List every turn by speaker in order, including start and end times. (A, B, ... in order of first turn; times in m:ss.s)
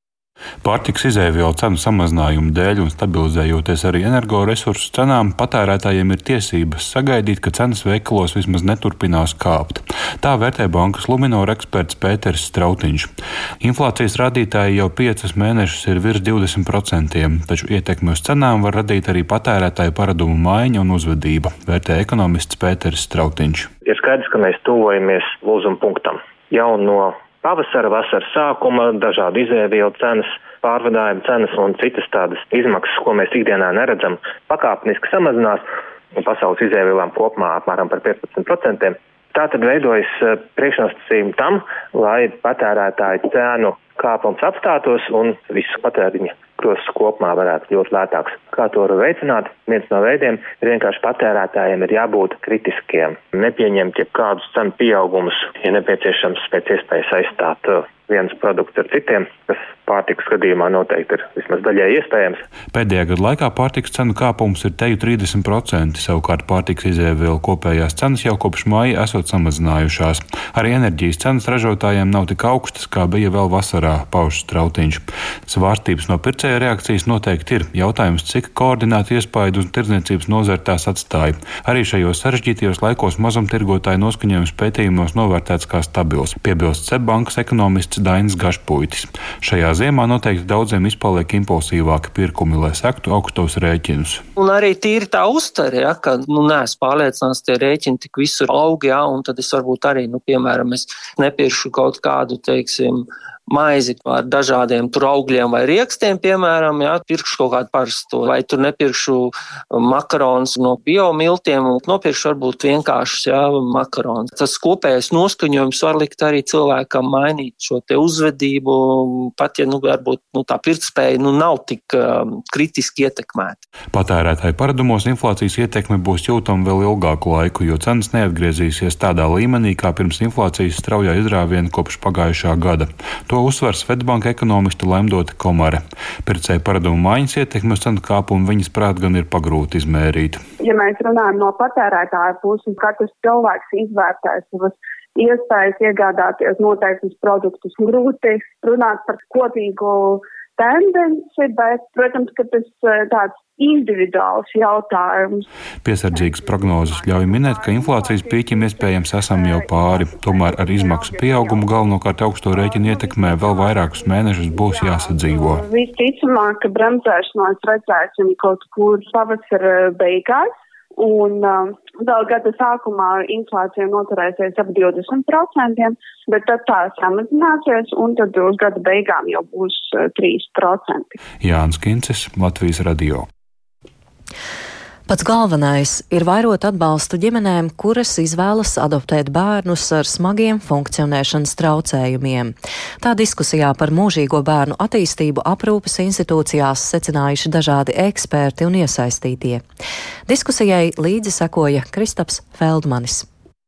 0:00.6-0:13.1 A
0:13.6-0:23.7 A
0:23.8-1:02.4 B
1:02.7-1:34.2 A
1:34.4-2:03.6 C
2:03.9-2:20.4 A
2:20.6-2:35.5 D
2:35.8-2:45.6 A
2:36.1-2:41.8 D
2:42.5-3:01.2 D
3:01.4-3:03.2 A
3:05.1-3:19.6 E
3:20.3-3:23.2 E